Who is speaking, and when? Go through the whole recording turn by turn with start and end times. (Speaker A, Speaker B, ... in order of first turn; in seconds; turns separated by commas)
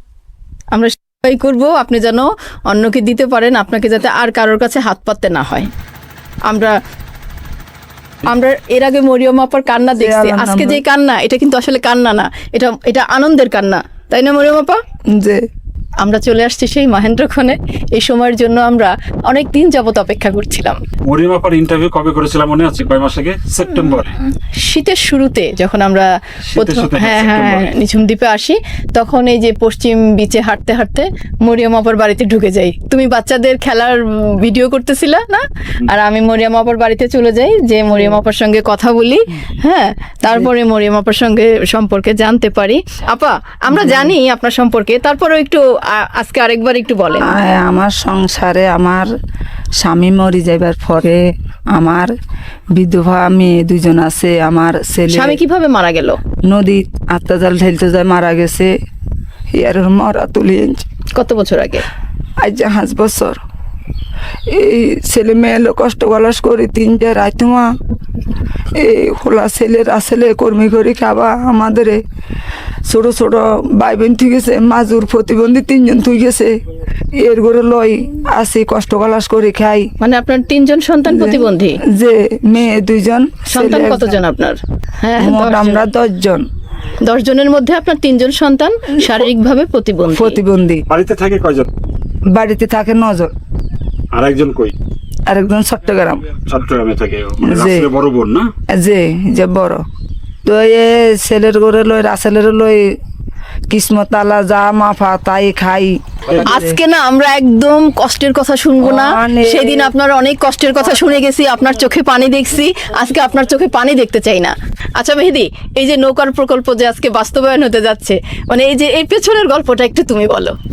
Speaker A: 0.7-5.7, Speaker A: 6.5-6.7, Speaker A: 8.3-14.8, Speaker B: 10.0-10.8, Speaker B: 15.2-15.4, Speaker A: 16.0-20.8, Speaker C: 21.1-24.1, Speaker A: 24.6-47.4, Speaker C: 26.5-27.7, Speaker B: 43.7-44.1, Speaker B: 47.2-49.1, Speaker B: 49.8-51.2, Speaker B: 51.7-52.1, Speaker B: 52.8-55.4, Speaker A: 55.1-56.2, Speaker B: 56.5-58.7, Speaker B: 59.5-60.9, Speaker A: 61.1-61.9, Speaker B: 62.4-63.4, Speaker B: 64.5-67.7, Speaker B: 68.8-72.0, Speaker B: 72.9-76.5, Speaker B: 77.2-79.9, Speaker A: 80.0-81.8, Speaker B: 81.1-84.1, Speaker A: 83.5-85.8, Speaker B: 85.2-86.4, Speaker A: 87.0-90.4, Speaker B: 89.0-89.3, Speaker B: 90.1-90.8, Speaker C: 90.9-91.7, Speaker B: 92.3-93.3, Speaker C: 94.1-94.7, Speaker B: 95.3-96.3, Speaker C: 96.5-98.5, Speaker B: 97.4-97.9, Speaker B: 98.7-99.8, Speaker B: 100.5-103.0, Speaker B: 103.7-106.8, Speaker A: 106.5-120.5, Speaker B: 108.8-109.9